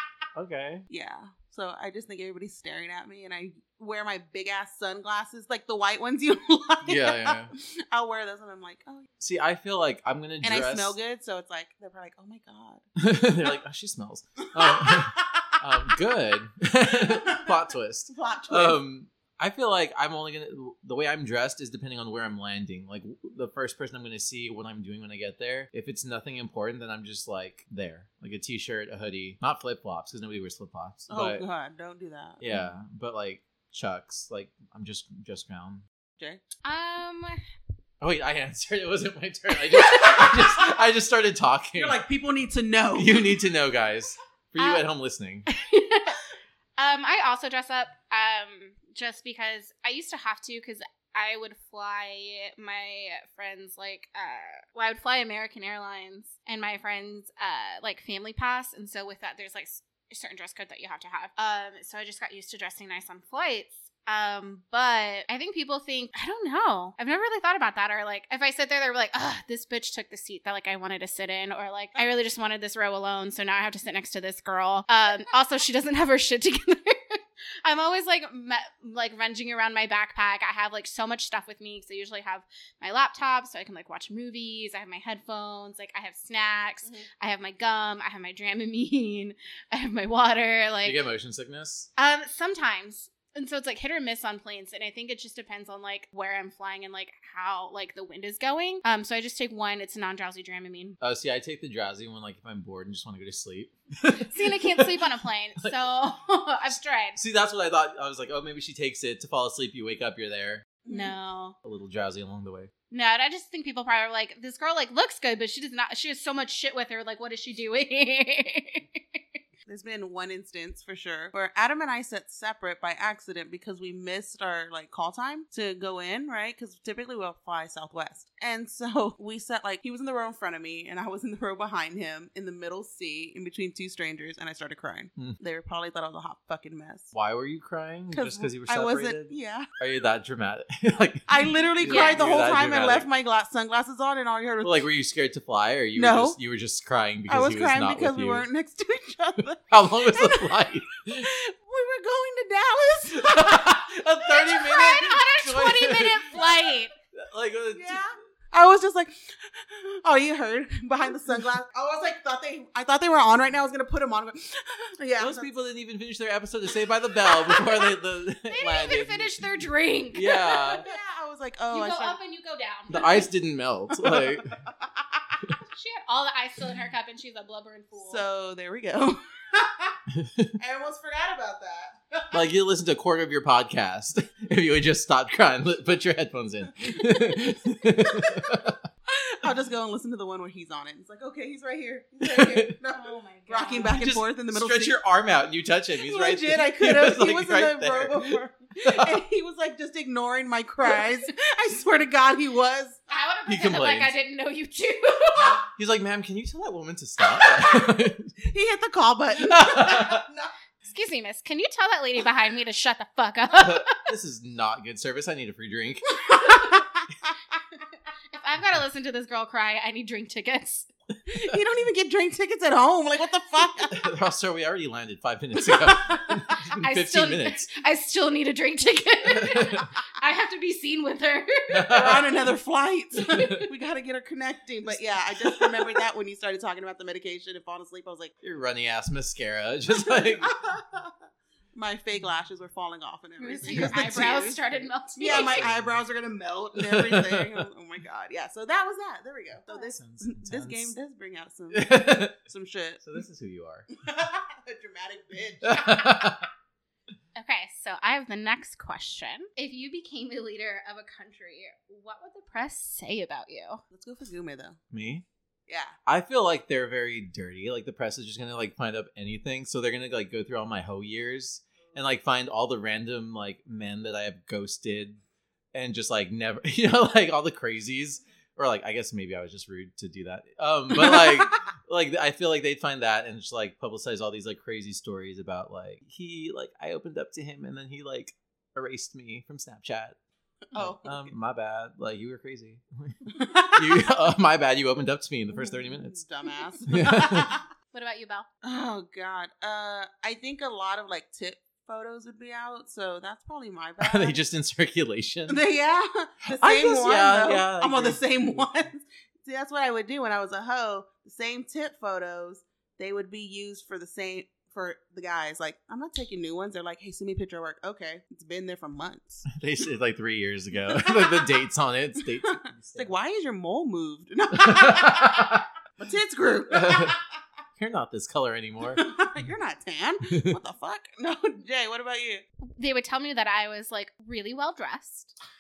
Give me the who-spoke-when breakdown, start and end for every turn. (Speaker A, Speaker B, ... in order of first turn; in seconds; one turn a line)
Speaker A: 0.3-0.8
Speaker B: 0.9-9.1
Speaker A: 6.8-7.5
Speaker A: 9.2-11.0
Speaker B: 10.4-12.8
Speaker A: 13.0-31.4
Speaker B: 14.5-15.6
Speaker B: 16.9-17.6
Speaker B: 18.1-18.8
Speaker B: 31.1-32.6
Speaker A: 32.4-35.8
Speaker C: 36.6-37.4
Speaker A: 38.0-42.0
Speaker B: 40.0-40.5
Speaker B: 41.8-43.4
Speaker A: 43.0-45.5
Speaker C: 44.6-44.8
Speaker C: 45.5-46.2
Speaker C: 46.8-91.0
Speaker A: 90.8-91.9
Speaker C: 92.0-101.0
Speaker A: 101.0-105.1
Speaker C: 104.2-107.2
Speaker A: 107.2-110.7
Speaker B: 110.8-111.1
Speaker C: 110.9-111.6
Speaker A: 111.6-112.7
Speaker C: 112.9-119.2
Speaker B: 119.7-137.1
Speaker A: 137.1-143.1
Speaker B: 138.1-139.7
Speaker B: 141.3-144.8
Speaker C: 141.9-142.2
Speaker A: 144.6-148.5
Speaker B: 146.0-146.4
Speaker B: 147.3-153.9
Speaker A: 149.7-151.3
Speaker A: 153.1-156.4
Speaker C: 154.3-156.9
Speaker A: 157.1-158.2
Speaker B: 157.7-165.5
Speaker A: 165.2-169.5
Speaker C: 168.5-170.8
Speaker A: 170.1-170.9
Speaker B: 170.8-172.2
Speaker C: 171.7-173.2
Speaker A: 172.9-174.5
Speaker B: 173.9-175.4
Speaker C: 175.7-178.2
Speaker B: 177.9-180.0
Speaker A: 180.1-180.5
Speaker B: 180.6-182.4
Speaker A: 182.3-188.8
Speaker B: 189.1-195.0
Speaker A: 192.2-192.7
Speaker C: 192.9-194.0
Speaker A: 193.9-199.2
Speaker B: 196.0-203.0
Speaker C: 203.1-205.6
Speaker A: 203.5-204.1
Speaker A: 205.6-208.4
Speaker B: 208.4-210.5
Speaker A: 209.4-210.2
Speaker C: 210.9-214.0
Speaker A: 213.6-216.2
Speaker B: 216.3-217.0
Speaker C: 218.3-220.9
Speaker B: 221.3-224.0
Speaker A: 223.9-227.7
Speaker B: 225.7-226.3
Speaker C: 226.8-232.0
Speaker A: 229.3-229.9
Speaker A: 231.7-232.4
Speaker B: 231.9-238.3
Speaker A: 238.4-240.6
Speaker B: 239.9-241.2
Speaker B: 241.7-244.6
Speaker C: 243.4-245.6
Speaker A: 243.7-244.1
Speaker B: 245.2-253.0
Speaker A: 245.2-246.0
Speaker A: 246.8-247.7
Speaker A: 249.7-250.9
Speaker A: 251.7-252.4
Speaker A: 253.0-253.9
Speaker B: 253.9-256.3
Speaker A: 255.6-256.5
Speaker C: 257.4-263.8
Speaker B: 263.9-264.8
Speaker A: 264.9-265.2
Speaker B: 265.7-265.9
Speaker A: 266.1-275.2
Speaker A: 275.7-290.2
Speaker B: 280.9-281.5
Speaker B: 290.7-291.3
Speaker A: 290.8-296.2
Speaker B: 293.4-294.0
Speaker B: 295.5-297.6
Speaker A: 296.9-297.5
Speaker C: 297.9-298.5
Speaker B: 298.6-304.4
Speaker A: 304.0-305.6
Speaker B: 305.5-319.5
Speaker A: 306.5-308.7
Speaker A: 319.5-323.1
Speaker B: 320.9-321.5
Speaker B: 322.4-327.2
Speaker A: 324.5-325.7
Speaker A: 326.7-327.2
Speaker A: 327.8-329.1
Speaker B: 328.9-332.4
Speaker A: 330.3-330.6
Speaker C: 332.6-335.3